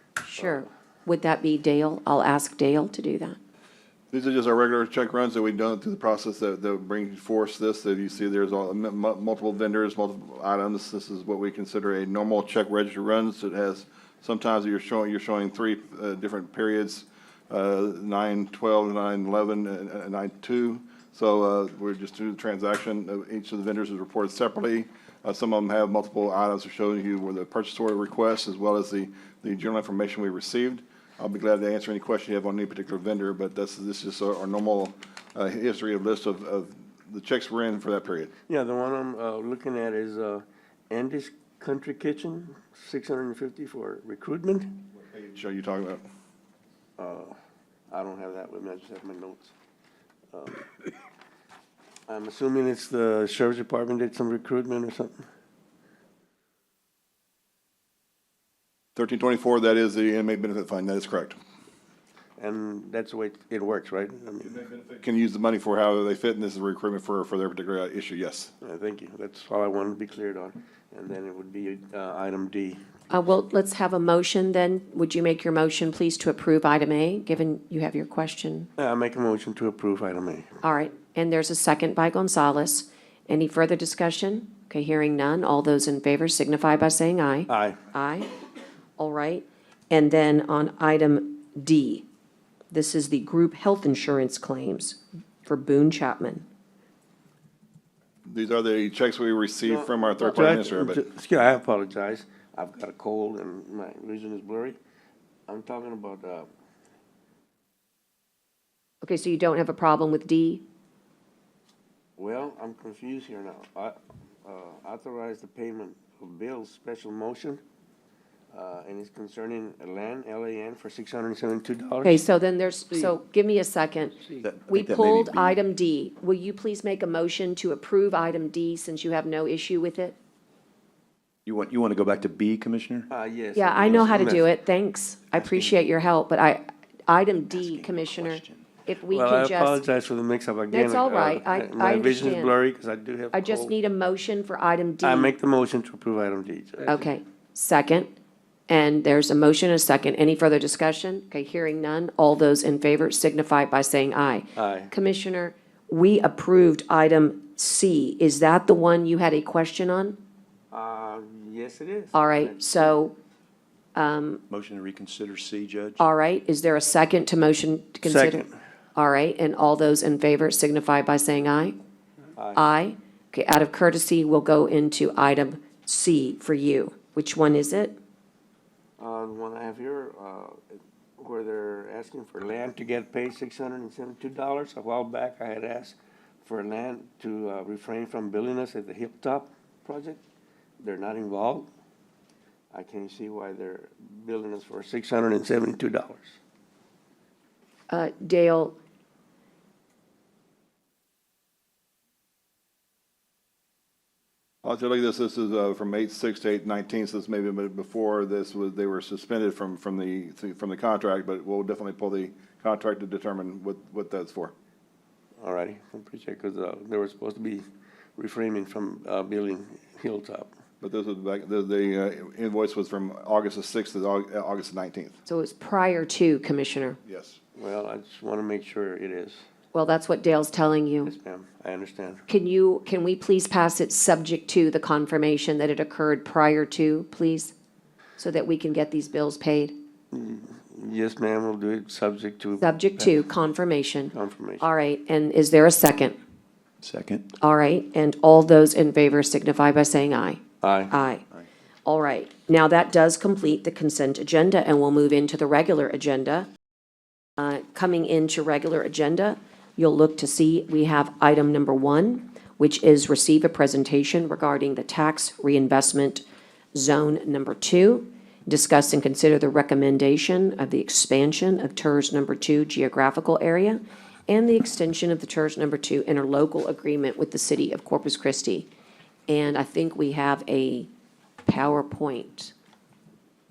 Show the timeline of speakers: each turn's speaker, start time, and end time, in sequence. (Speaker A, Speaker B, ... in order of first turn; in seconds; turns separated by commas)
Speaker A: 0.2-3.4, Speaker B: 4.1-38.3, Speaker C: 38.5-44.8, Speaker B: 45.0-46.0, Speaker C: 47.0-47.4, Speaker C: 47.9-49.5, Speaker C: 50.3-50.7, Speaker C: 52.1-55.2, Speaker B: 59.0-61.4, Speaker C: 62.4-64.7, Speaker B: 64.5-68.5, Speaker C: 68.6-72.8, Speaker A: 73.1-78.7, Speaker C: 78.8-80.5, Speaker A: 80.6-88.3, Speaker C: 87.5-87.8, Speaker A: 89.0-92.1, Speaker A: 92.7-96.5, Speaker B: 98.2-101.0, Speaker C: 99.6-104.8, Speaker C: 105.5-106.5, Speaker A: 109.0-110.6, Speaker C: 112.2-117.6, Speaker C: 118.5-122.2, Speaker A: 122.0-130.2, Speaker D: 124.3-125.6, Speaker D: 131.5-133.1, Speaker C: 133.1-134.5, Speaker A: 133.5-139.8, Speaker D: 135.3-135.8, Speaker D: 137.5-138.7, Speaker C: 139.1-143.8, Speaker A: 140.7-142.5, Speaker A: 143.3-145.3, Speaker C: 145.0-147.1, Speaker A: 146.9-148.1, Speaker A: 148.7-160.2, Speaker C: 154.6-154.9, Speaker C: 160.7-163.0, Speaker A: 162.1-163.2, Speaker A: 163.9-164.4, Speaker D: 164.5-166.1, Speaker A: 166.0-168.4, Speaker C: 168.0-168.6, Speaker A: 168.9-171.8, Speaker C: 172.4-172.6, Speaker A: 172.5-178.0, Speaker C: 179.0-190.2, Speaker C: 190.8-191.7, Speaker C: 192.7-196.4, Speaker A: 197.9-198.8, Speaker B: 204.6-214.5, Speaker C: 215.4-217.7, Speaker C: 218.2-220.5, Speaker B: 220.8-225.2, Speaker A: 225.3-227.0, Speaker B: 227.0-227.4, Speaker C: 227.5-229.4, Speaker A: 229.7-231.1, Speaker C: 231.0-232.2, Speaker A: 232.3-237.5, Speaker A: 238.2-239.8, Speaker C: 240.1-243.2, Speaker A: 242.6-246.2, Speaker C: 244.1-244.7, Speaker D: 246.8-247.2, Speaker A: 247.4-251.2, Speaker C: 250.6-250.9, Speaker A: 251.9-256.5, Speaker A: 257.4-278.7, Speaker A: 279.3-280.9, Speaker A: 281.4-282.5